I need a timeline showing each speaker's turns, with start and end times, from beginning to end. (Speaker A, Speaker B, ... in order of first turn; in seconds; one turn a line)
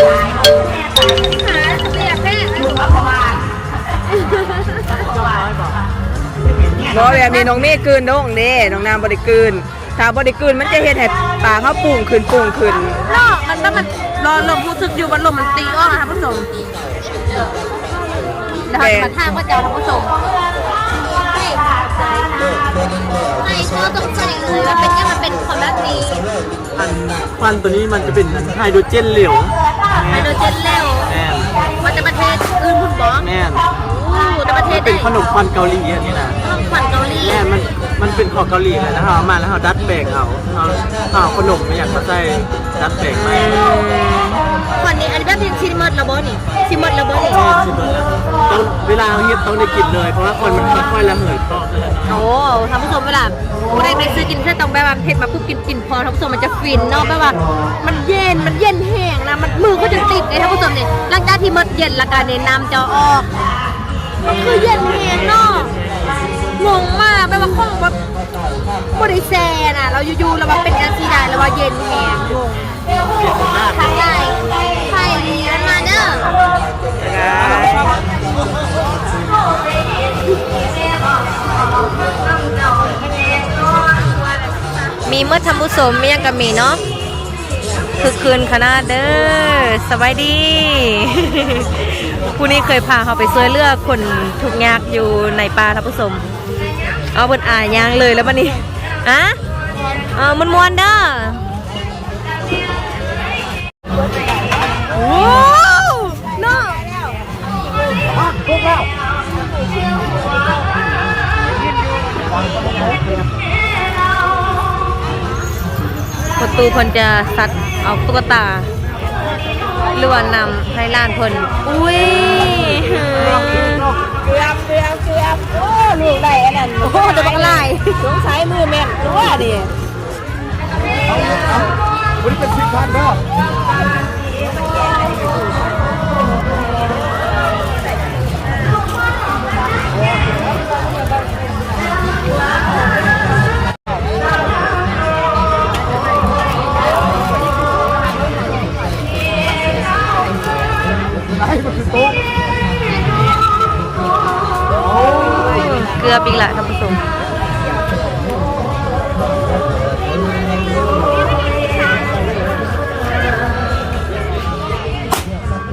Speaker A: 1.1-3.3
Speaker A: 4.1-5.0
Speaker B: 4.9-5.8
Speaker C: 6.9-13.0
Speaker A: 7.0-7.5
Speaker A: 13.0-16.5
Speaker A: 18.6-20.1
Speaker C: 18.8-19.1
Speaker A: 21.2-22.4
Speaker A: 23.4-26.2
Speaker B: 26.8-30.4
Speaker A: 30.1-31.1
Speaker B: 31.1-31.5
Speaker A: 31.8-35.1
Speaker B: 33.2-33.7
Speaker B: 34.7-36.4
Speaker A: 36.4-37.5
Speaker B: 37.2-43.7
Speaker A: 43.1-47.5
Speaker B: 47.3-52.2
Speaker A: 52.1-63.3
Speaker A: 64.2-65.7
Speaker B: 64.8-65.7
Speaker A: 66.6-68.0
Speaker A: 68.9-72.6
Speaker B: 73.2-74.1
Speaker A: 73.6-76.4
Speaker C: 77.0-77.9
Speaker B: 77.3-78.0
Speaker A: 85.0-86.8
Speaker A: 88.0-96.2
Speaker A: 97.1-99.4
Speaker A: 100.0-101.4
Speaker A: 104.9-107.1
Speaker B: 108.3-108.8
Speaker A: 116.4-118.7
Speaker A: 119.9-124.0
Speaker C: 124.1-129.7
Speaker A: 126.8-128.1
Speaker B: 131.1-131.6
Speaker B: 132.2-133.2
Speaker A: 155.0-157.0